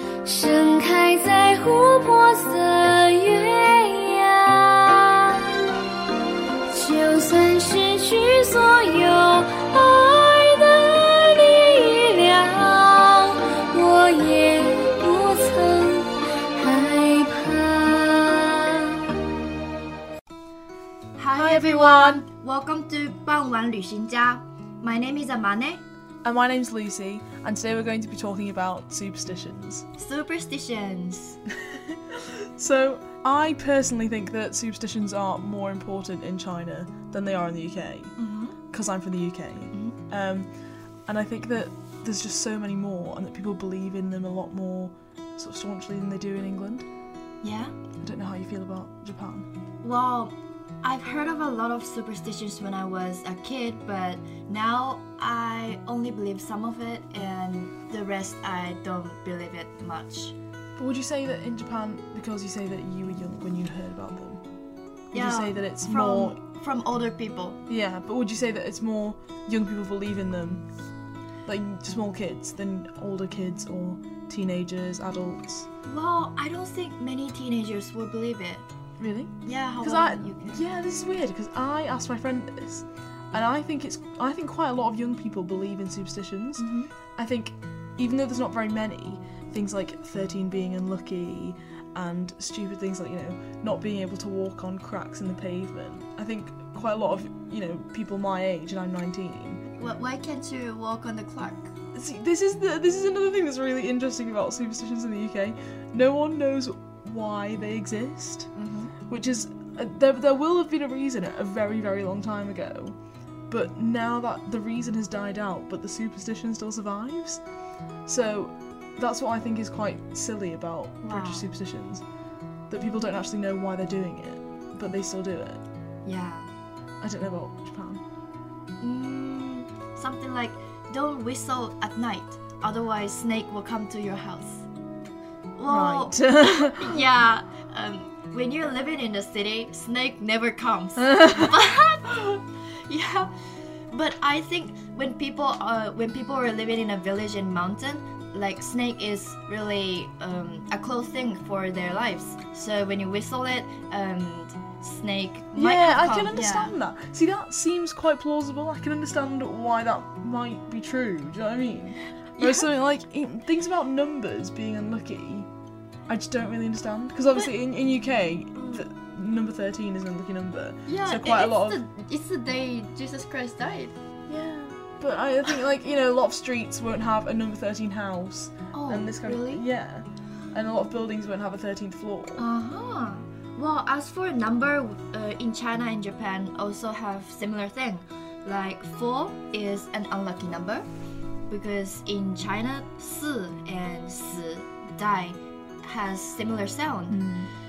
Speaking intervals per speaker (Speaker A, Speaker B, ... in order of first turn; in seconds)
Speaker A: 0.2-5.5, 6.7-19.1
Speaker B: 21.2-25.8, 29.9-31.4, 38.2-38.6, 47.4-47.7, 49.8-60.3, 65.1-67.6, 75.8-78.7, 79.4-80.6, 86.6-86.9, 99.8-101.7, 108.5-108.9, 121.0-121.5, 126.0-126.5, 128.8-134.7, 135.6-143.3, 143.9-156.7, 162.4-162.7, 168.6-168.8, 170.8-173.9, 178.7-179.6, 182.4-190.8, 191.5-197.2
Speaker C: 21.4-22.2, 26.2-29.9, 31.7-38.1, 38.7-40.5, 41.0-46.9, 48.0-49.5, 60.8-64.4, 65.1-66.4, 67.7-70.6, 71.5-75.7, 79.0-99.6, 101.9-108.5, 109.1-113.0, 113.5-117.4, 118.0-122.0, 122.7-125.6, 127.0-128.0, 135.7-137.0, 141.0-141.5, 155.5-165.5, 166.1-171.8, 174.3-182.4, 197.1-197.5